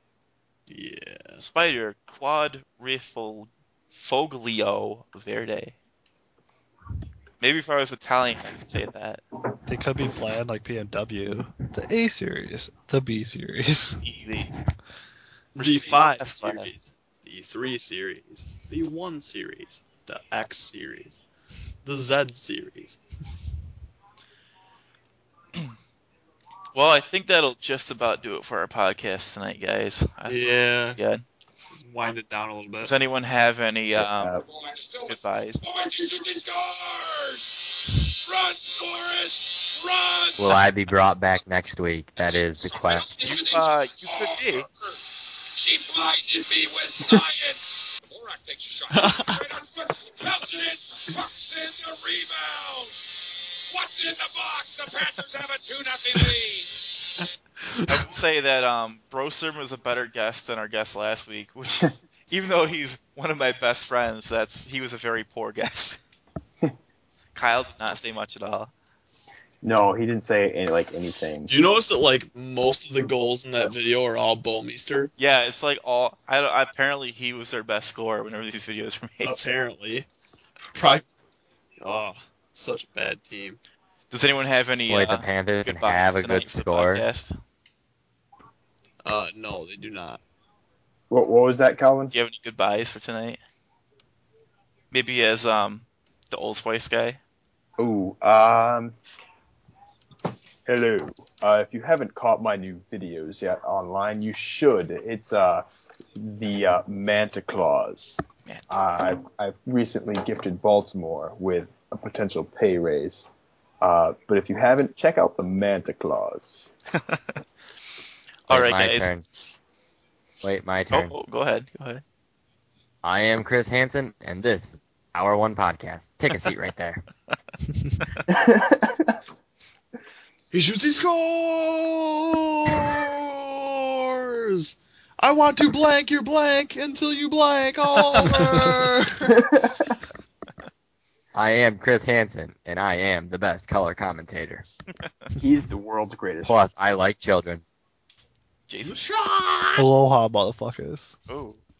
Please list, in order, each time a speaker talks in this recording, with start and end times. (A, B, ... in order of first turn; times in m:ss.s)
0:00.7-0:01.4 A
0:01.4-0:05.8 B
0:07.4-0:09.2 B
0:09.6-0:14.0 C
0:14.0-0:14.5 B
0:15.5-0:21.2 A
0:15.6-0:16.8 B
0:21.8-0:23.0 A
0:26.7-0:30.4 B
0:30.3-0:31.0 A
0:31.0-0:31.2 B
0:31.7-0:32.9 A
0:32.8-0:34.3 B
0:34.0-0:34.4 D
0:34.4-0:40.5 E
0:35.1-0:35.6 B
0:40.4-0:43.1 F
0:42.2-0:45.0 E
0:43.2-0:44.7 B
0:45.5-0:56.8 E
0:48.9-0:49.4 A
0:57.9-1:06.0 B
1:07.3-1:08.7 B
1:09.6-1:11.5 D
1:11.5-1:15.1 A
1:15.2-1:19.4 B
1:19.2-1:20.1 A
1:20.7-1:21.1 A
1:21.8-1:23.6 A
1:24.1-1:27.3 B
1:24.9-1:27.0 F
1:29.0-1:30.2 A
1:31.1-1:32.1 D
1:32.1-1:33.4 B
1:34.9-1:37.2 B
1:37.8-1:38.9 D
1:40.6-1:45.6 D
1:46.2-1:53.3 D
1:53.8-1:56.7 D
1:57.0-1:57.3 B
1:58.5-1:59.1 B
1:58.5-1:59.2 F
2:00.4-2:01.1 F
2:00.9-2:02.0 B
2:03.0-2:07.0 F
2:08.3-2:09.0 D
2:10.5-2:19.5 A
2:19.4-2:19.8 D
2:21.3-2:24.6 F
2:25.4-2:26.6 D
2:26.4-2:27.6 F
2:28.7-2:29.0 B
2:28.9-2:29.9 E
2:29.8-2:31.2 C
2:31.3-2:31.6 B